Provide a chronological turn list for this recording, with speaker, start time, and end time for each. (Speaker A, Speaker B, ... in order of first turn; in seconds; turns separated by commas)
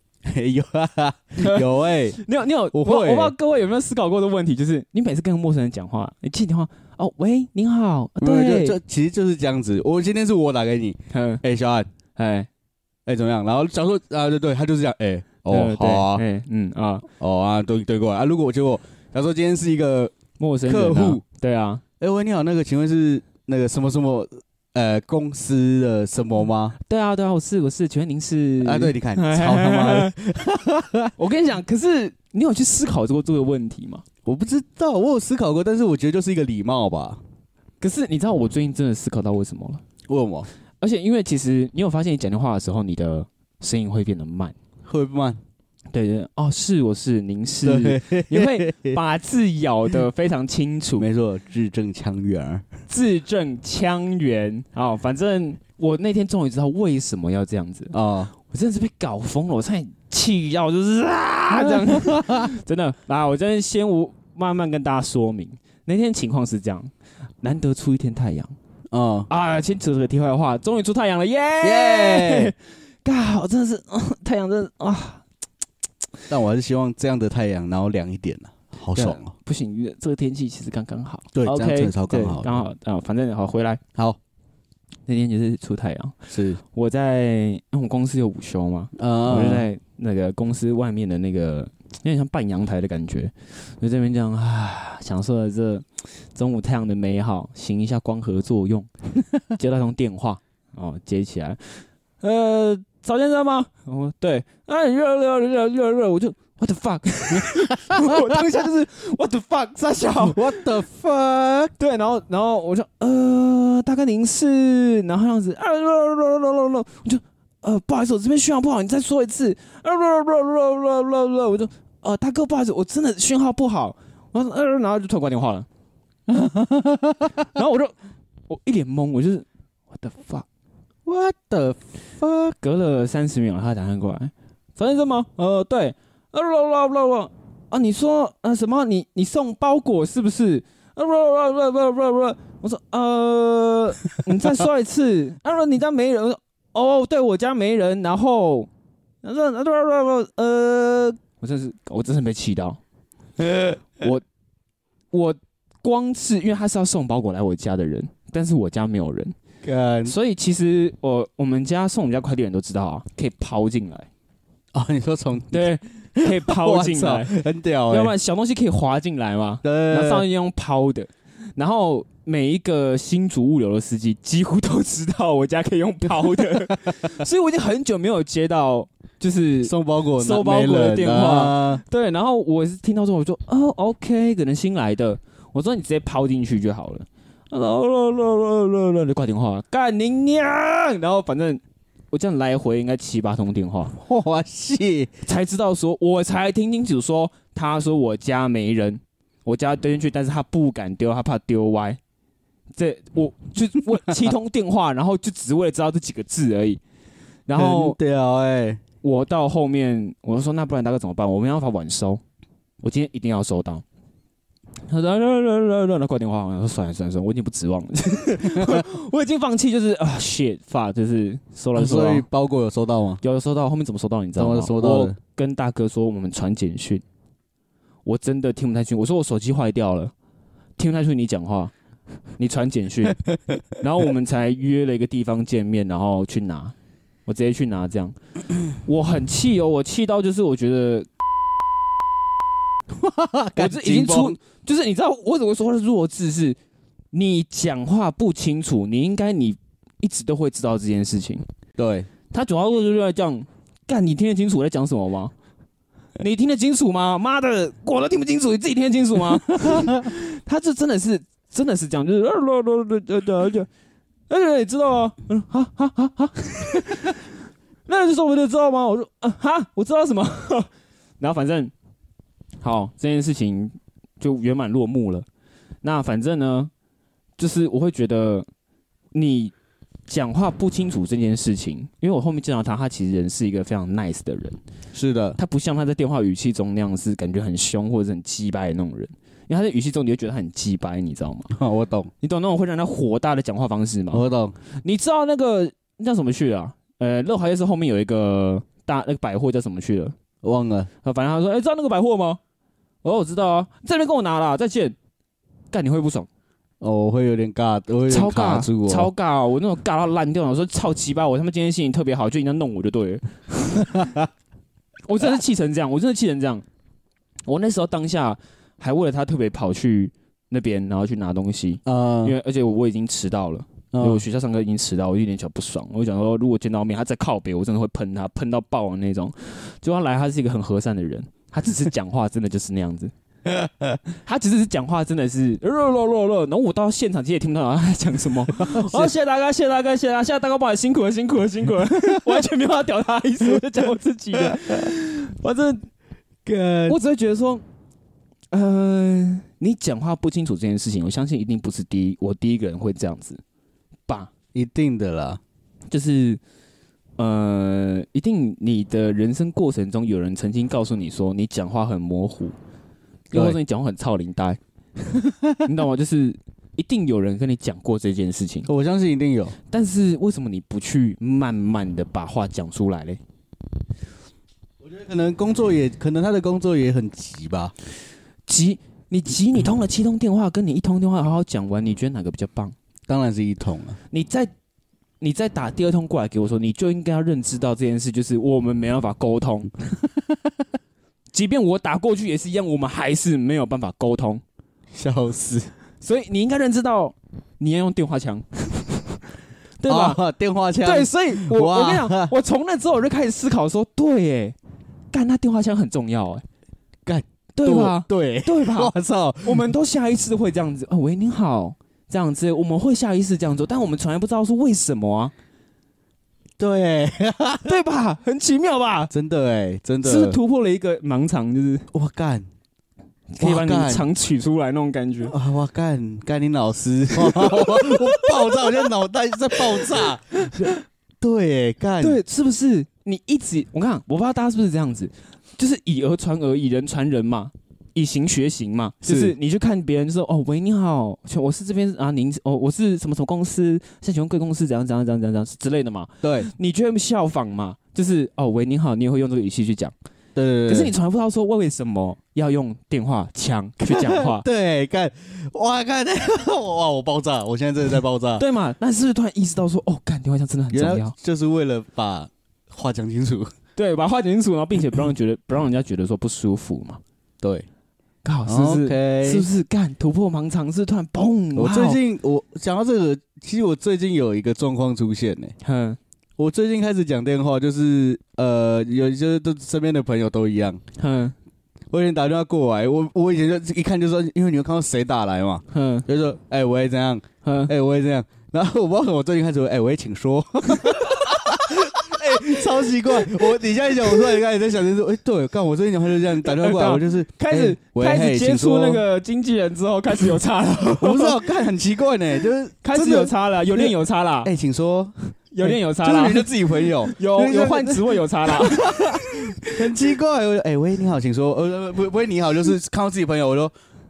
Speaker A: 0.3-2.2, Speaker B: 1.4-8.8, Speaker A: 2.7-3.4, Speaker A: 8.2-11.9, Speaker B: 11.1-11.4, Speaker B: 12.2-12.5, Speaker A: 13.1-16.2, Speaker B: 15.5-17.1, Speaker A: 17.2-20.1, Speaker B: 20.4-21.8, Speaker A: 20.6-21.2, Speaker A: 22.0-26.8, Speaker B: 26.8-30.1, Speaker A: 28.6-31.1, Speaker B: 31.2-34.0, Speaker A: 34.2-37.2, Speaker B: 37.8-39.8, Speaker A: 40.1-40.5, Speaker B: 40.8-44.5, Speaker A: 44.9-45.4, Speaker B: 45.9-51.1, Speaker A: 47.6-49.0, Speaker A: 51.0-52.7, Speaker B: 52.9-66.9, Speaker A: 57.9-58.3, Speaker A: 61.5-62.5, Speaker B: 67.4-68.5, Speaker A: 68.9-69.3, Speaker B: 69.3-75.2, Speaker A: 71.6-72.5, Speaker A: 76.3-79.3, Speaker B: 79.0-83.8, Speaker A: 81.3-82.5, Speaker B: 85.1-86.2, Speaker A: 86.3-86.6, Speaker B: 86.7-98.9, Speaker A: 89.0-89.7, Speaker B: 99.5-110.4, Speaker A: 107.3-108.5, Speaker A: 110.2-111.7, Speaker B: 111.8-125.7, Speaker A: 126.3-127.4, Speaker B: 127.5-127.9, Speaker B: 128.5-130.5, Speaker A: 131.1-132.6, Speaker B: 132.6-148.7, Speaker B: 149.2-152.8, Speaker A: 153.4-153.8, Speaker B: 155.1-159.3, Speaker A: 159.6-160.2, Speaker B: 160.1-164.1, Speaker A: 164.7-168.1, Speaker B: 165.5-167.3, Speaker B: 167.9-191.6, Speaker A: 169.6-170.3, Speaker A: 179.6-181.8, Speaker B: 192.1-193.9, Speaker A: 194.0-195.1, Speaker B: 195.2-202.0, Speaker B: 202.8-206.8, Speaker B: 207.5-208.0, Speaker A: 207.6-208.8, Speaker B: 209.0-212.2, Speaker B: 212.8-213.8, Speaker B: 214.9-222.2, Speaker A: 218.6-218.8, Speaker A: 221.8-223.2, Speaker B: 223.2-227.0, Speaker A: 224.4-225.2, Speaker B: 228.1-230.1, Speaker B: 230.8-231.7, Speaker B: 232.4-233.2, Speaker B: 233.8-236.7, Speaker B: 237.3-238.2, Speaker B: 238.8-241.1, Speaker A: 242.9-244.4, Speaker B: 243.6-246.6, Speaker B: 247.1-251.4, Speaker A: 251.8-252.1, Speaker B: 252.3-255.3, Speaker B: 256.2-263.7, Speaker A: 259.6-260.0, Speaker B: 264.3-267.2, Speaker B: 267.9-270.7, Speaker B: 271.2-271.7, Speaker B: 272.6-275.3, Speaker B: 275.8-276.7, Speaker B: 277.4-278.5, Speaker B: 279.1-279.5, Speaker B: 280.1-284.6, Speaker A: 284.9-285.4, Speaker B: 285.4-291.5, Speaker A: 291.5-292.1, Speaker B: 292.2-294.2, Speaker A: 294.1-294.6, Speaker B: 294.8-300.1, Speaker A: 300.4-300.9, Speaker B: 301.0-302.4, Speaker B: 303.0-304.9, Speaker B: 305.7-306.3, Speaker A: 306.8-309.1, Speaker B: 308.1-314.1, Speaker A: 313.9-314.3, Speaker B: 315.1-316.6, Speaker B: 317.5-333.1, Speaker A: 321.9-322.4, Speaker A: 323.9-324.2, Speaker B: 334.2-345.8, Speaker A: 338.6-339.1, Speaker A: 346.4-347.0, Speaker B: 346.9-347.6, Speaker B: 348.5-353.4, Speaker A: 354.5-355.4, Speaker B: 355.9-356.4, Speaker B: 357.2-362.6, Speaker A: 363.3-363.6, Speaker B: 363.3-364.6, Speaker A: 365.2-365.6, Speaker B: 365.6-368.7, Speaker A: 368.7-369.6, Speaker B: 369.7-373.2, Speaker A: 374.8-377.7, Speaker B: 378.5-382.8, Speaker A: 383.1-384.0, Speaker B: 384.1-384.5, Speaker B: 385.2-389.7, Speaker B: 391.3-394.4, Speaker A: 394.9-395.7, Speaker B: 396.0-399.2, Speaker B: 399.8-400.2, Speaker A: 399.9-402.3, Speaker B: 400.8-404.6, Speaker B: 405.1-406.4, Speaker A: 407.1-409.7, Speaker B: 407.6-415.3, Speaker A: 416.6-417.8, Speaker B: 417.6-419.1, Speaker A: 419.1-420.4, Speaker B: 420.0-421.9, Speaker A: 421.9-422.5, Speaker B: 423.3-425.3, Speaker A: 423.4-424.1, Speaker A: 425.3-432.2, Speaker B: 427.2-428.8, Speaker B: 429.7-430.7, Speaker B: 432.0-449.9, Speaker A: 439.0-439.4, Speaker A: 446.2-446.5, Speaker A: 450.4-450.9, Speaker B: 450.7-454.4, Speaker A: 453.8-458.4, Speaker B: 458.4-461.1, Speaker A: 460.7-463.5, Speaker B: 463.8-467.0, Speaker A: 467.4-467.7, Speaker B: 468.2-472.0, Speaker A: 468.5-469.5, Speaker A: 471.6-475.5, Speaker B: 475.6-476.0, Speaker A: 476.4-480.8, Speaker B: 481.0-481.4, Speaker A: 481.9-499.0, Speaker B: 485.7-486.1, Speaker B: 487.4-487.7, Speaker B: 496.4-501.4, Speaker A: 501.0-513.7, Speaker B: 502.8-504.5, Speaker B: 505.5-509.9